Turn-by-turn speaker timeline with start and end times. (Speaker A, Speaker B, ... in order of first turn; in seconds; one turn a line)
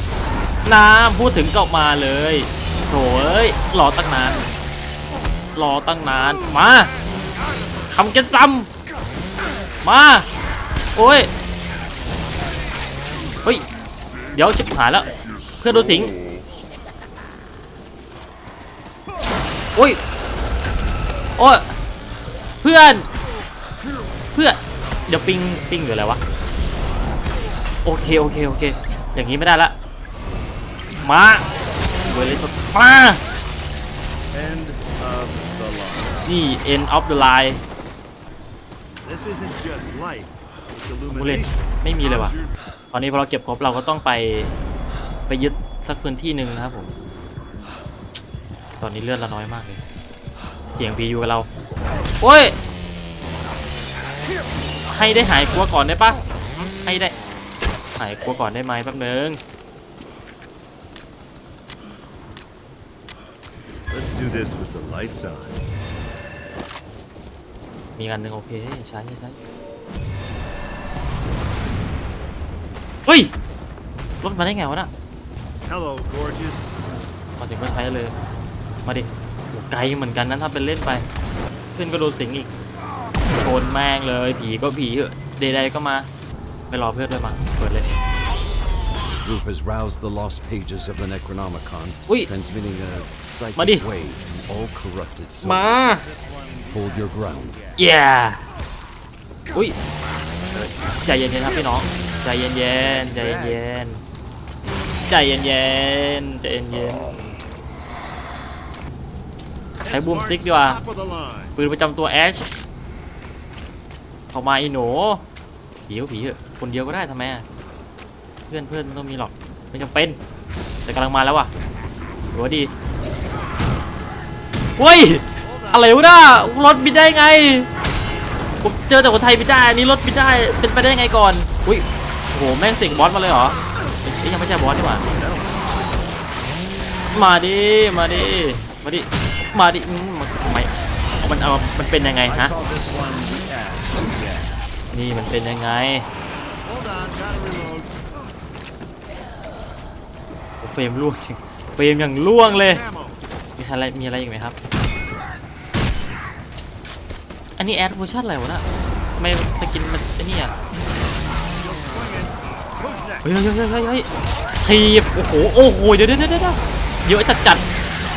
Speaker A: 0.6-4.4
Speaker A: 5.5-6.9
Speaker A: 7.9-8.7
Speaker A: 9.8-10.3
Speaker A: 10.9-11.3
Speaker A: 14.3-16.2
Speaker A: 19.8-20.0
Speaker A: 21.4-21.7
Speaker A: 22.6-23.1
Speaker A: 24.3-26.2
Speaker A: 27.8-29.7
Speaker A: 31.0-31.5
Speaker A: 32.0-33.2
Speaker B: 34.3-36.3
Speaker A: 36.2-37.6
Speaker B: 39.0-41.5
Speaker A: 41.1-42.4
Speaker A: 42.9-44.5
Speaker A: 45.3-46.9
Speaker A: 48.8-49.8
Speaker A: 50.6-51.5
Speaker A: 52.2-52.5
Speaker A: 54.9-57.1
Speaker A: 58.0-59.4
Speaker B: 63.9-65.5
Speaker C: 63.9-65.5
Speaker A: 68.0-69.4
Speaker A: 73.0-73.3
Speaker A: 74.2-74.9
Speaker B: 75.6-76.6
Speaker A: 77.4-78.1
Speaker A: 78.8-81.0
Speaker A: 81.7-82.5
Speaker A: 83.3-86.1
Speaker A: 86.7-87.9
Speaker C: 89.1-95.8
Speaker A: 93.5-93.8
Speaker A: 95.4-96.0
Speaker B: 95.8-97.8
Speaker C: 96.7-97.6
Speaker A: 97.8-98.4
Speaker A: 99.5-99.8
Speaker A: 101.0-104.0
Speaker B: 102.8-103.6
Speaker A: 105.1-107.2
Speaker B: 109.8-111.5
Speaker A: 109.9-110.8
Speaker A: 111.5-112.5
Speaker A: 114.3-115.2
Speaker A: 115.9-117.4
Speaker A: 118.5-120.2
Speaker A: 120.8-121.5
Speaker A: 122.3-122.7
Speaker A: 124.8-127.7
Speaker B: 125.4-125.9
Speaker A: 128.6-135.0
Speaker B: 135.1-136.0
Speaker A: 137.1-142.5
Speaker B: 142.2-144.6
Speaker A: 144.9-146.1
Speaker B: 146.6-148.2
Speaker A: 150.6-152.8
Speaker B: 152.5-153.2
Speaker A: 153.6-154.5
Speaker A: 157.6-158.6
Speaker A: 159.2-160.5
Speaker B: 161.5-163.2
Speaker A: 163.2-164.1
Speaker A: 164.6-167.6